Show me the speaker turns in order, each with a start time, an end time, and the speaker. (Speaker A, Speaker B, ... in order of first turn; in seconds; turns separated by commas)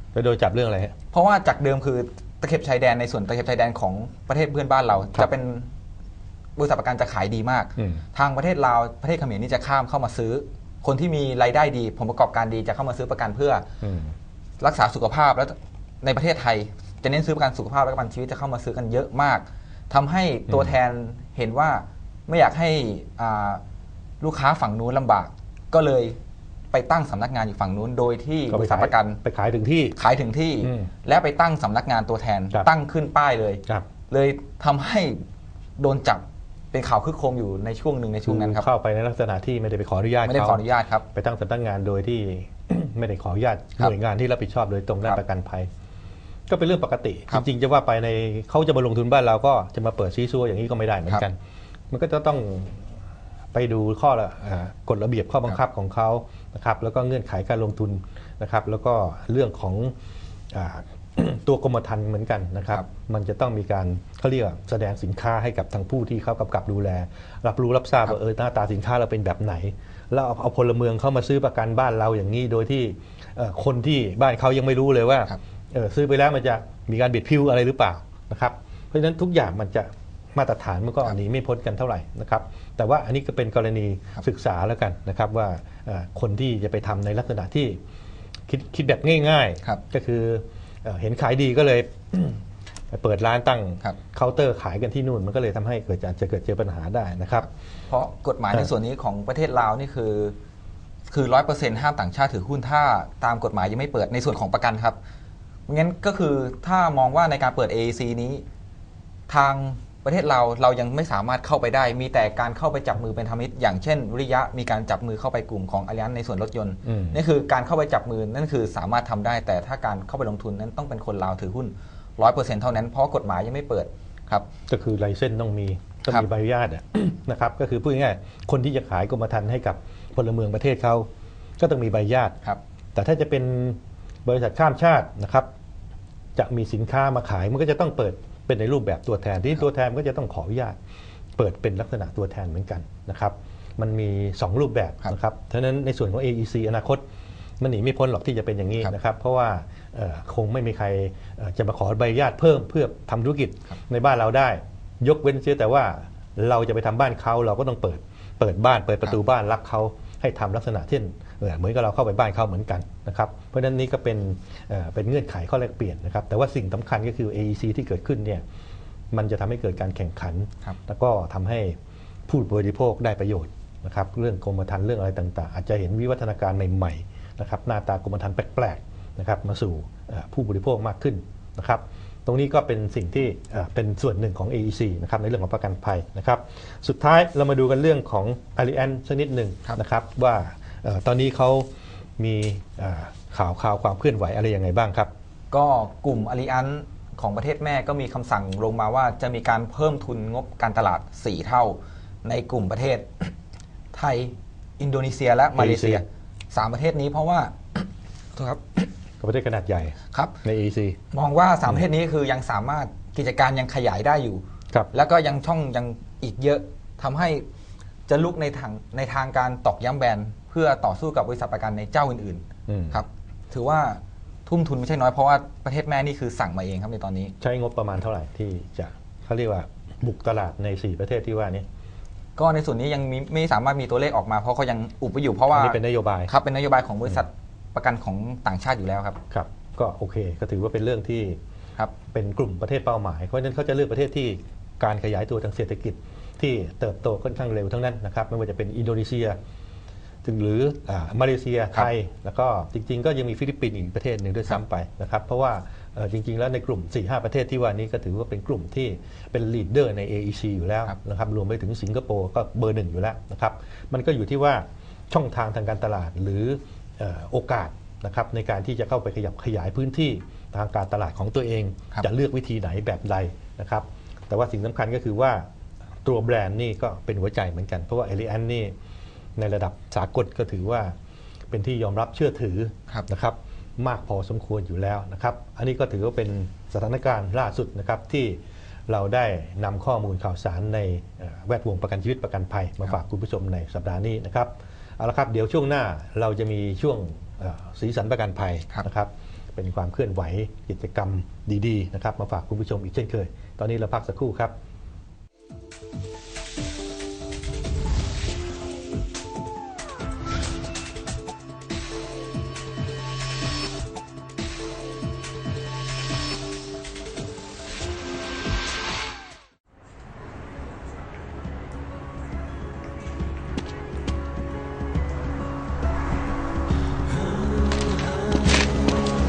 Speaker A: 0.1-0.9, Speaker B: 1.1-5.7, Speaker B: 6.5-13.7, Speaker A: 7.8-8.0, Speaker A: 13.8-14.1, Speaker B: 14.6-23.6, Speaker A: 20.5-20.7, Speaker B: 24.2-26.2, Speaker B: 26.7-29.2, Speaker A: 28.5-30.0, Speaker B: 29.9-35.2, Speaker A: 30.6-30.9, Speaker B: 35.8-38.7, Speaker A: 38.2-45.7, Speaker B: 40.2-41.1, Speaker A: 46.5-51.4, Speaker A: 51.9-52.9, Speaker A: 53.5-59.9, Speaker A: 60.5-87.8, Speaker A: 88.5-97.5, Speaker B: 97.9-100.3, Speaker B: 101.1-105.0, Speaker B: 105.7-108.4, Speaker B: 109.3-124.5, Speaker A: 116.8-117.2, Speaker A: 124.7-131.1, Speaker A: 131.6-132.4, Speaker A: 132.9-135.5, Speaker A: 136.3-140.8, Speaker A: 141.4-147.0, Speaker A: 147.6-168.4, Speaker A: 169.1-171.8, Speaker A: 172.3-195.1, Speaker B: 195.5-203.3, Speaker B: 203.9-208.6, Speaker A: 205.5-206.0, Speaker A: 209.2-211.0, Speaker B: 211.1-217.4, Speaker B: 218.1-227.3, Speaker A: 222.7-223.0, Speaker A: 227.4-231.7, Speaker B: 232.3-239.2, Speaker A: 235.5-236.3, Speaker A: 239.3-241.4, Speaker A: 242.1-249.4, Speaker A: 250.2-275.4, Speaker A: 276.0-278.7, Speaker A: 279.4-280.9, Speaker A: 281.5-304.5